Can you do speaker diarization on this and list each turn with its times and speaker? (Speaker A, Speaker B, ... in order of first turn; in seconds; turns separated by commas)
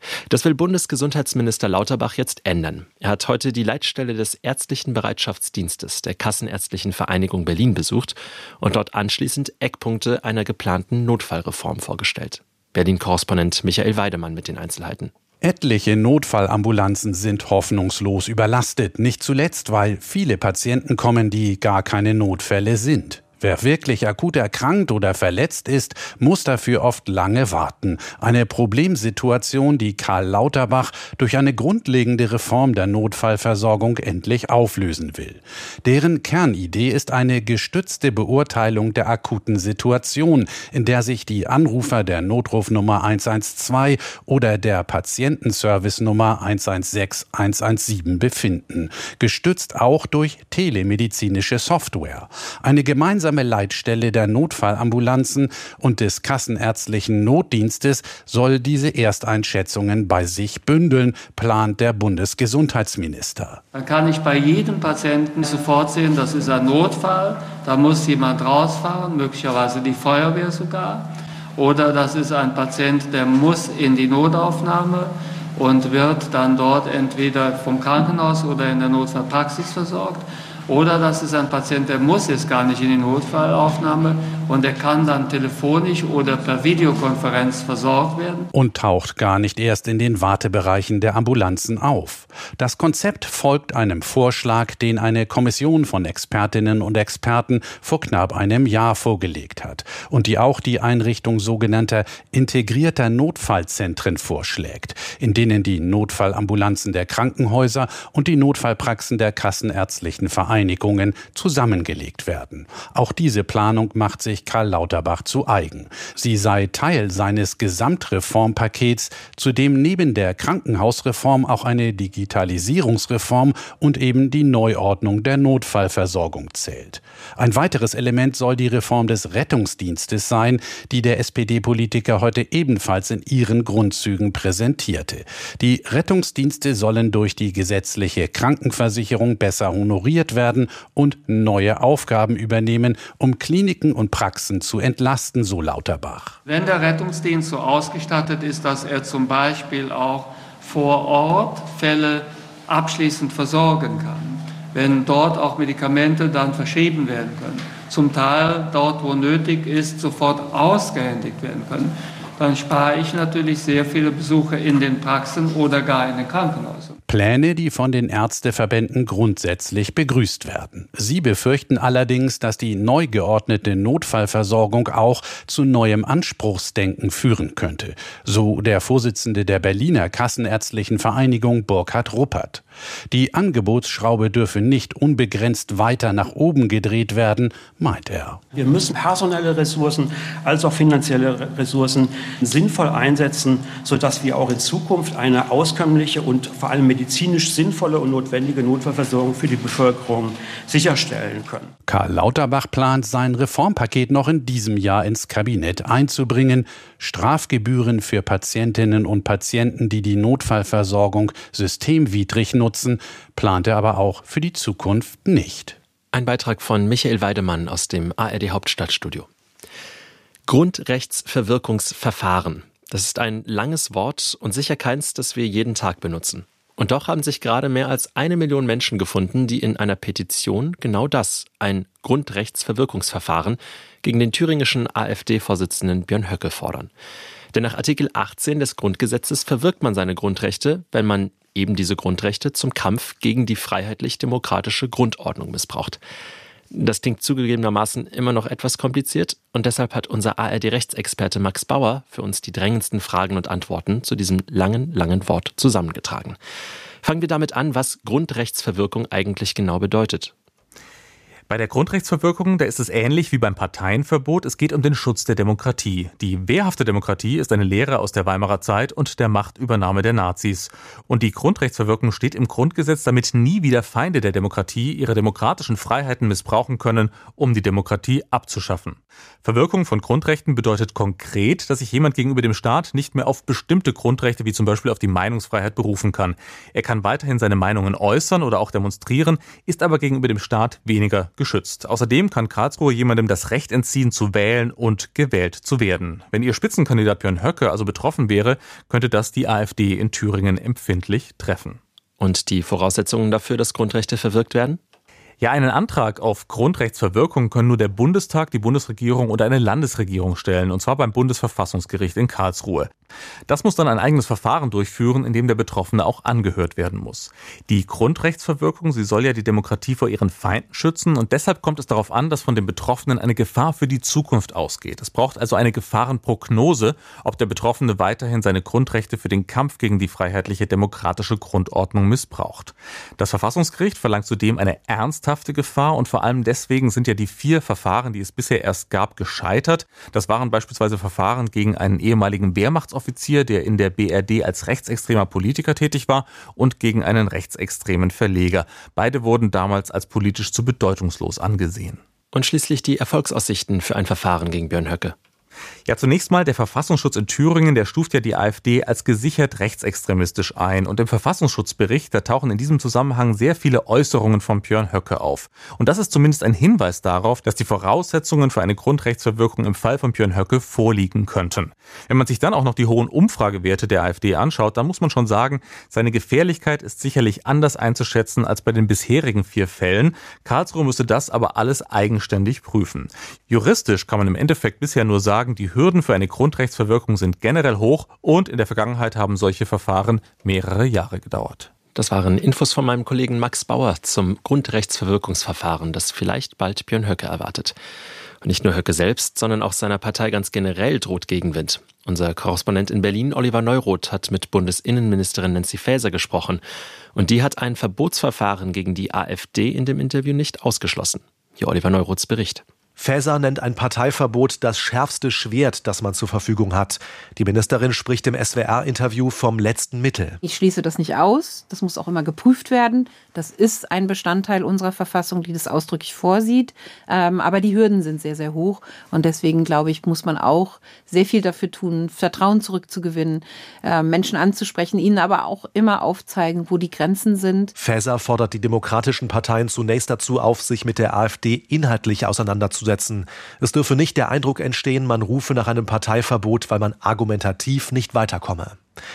Speaker A: 0.3-15.1, Speaker B: 15.4-63.6, Speaker C: 63.8-88.5, Speaker B: 88.5-146.4, Speaker C: 146.5-167.0, Speaker B: 167.1-188.4, Speaker D: 188.5-201.7, Speaker B: 201.9-215.8, Speaker A: 216.1-219.3, Speaker A: 220.5-236.9, Speaker A: 237.5-246.0, Speaker A: 246.7-256.4, Speaker A: 257.0-260.3, Speaker E: 261.5-301.8, Speaker A: 302.2-304.8, Speaker E: 305.4-312.9, Speaker E: 313.5-352.0, Speaker A: 352.3-355.1, Speaker E: 355.9-391.7, Speaker A: 391.9-397.8, Speaker A: 398.4-406.6, Speaker A: 407.1-412.6, Speaker F: 413.0-420.4, Speaker G: 420.4-437.7, Speaker F: 437.8-448.8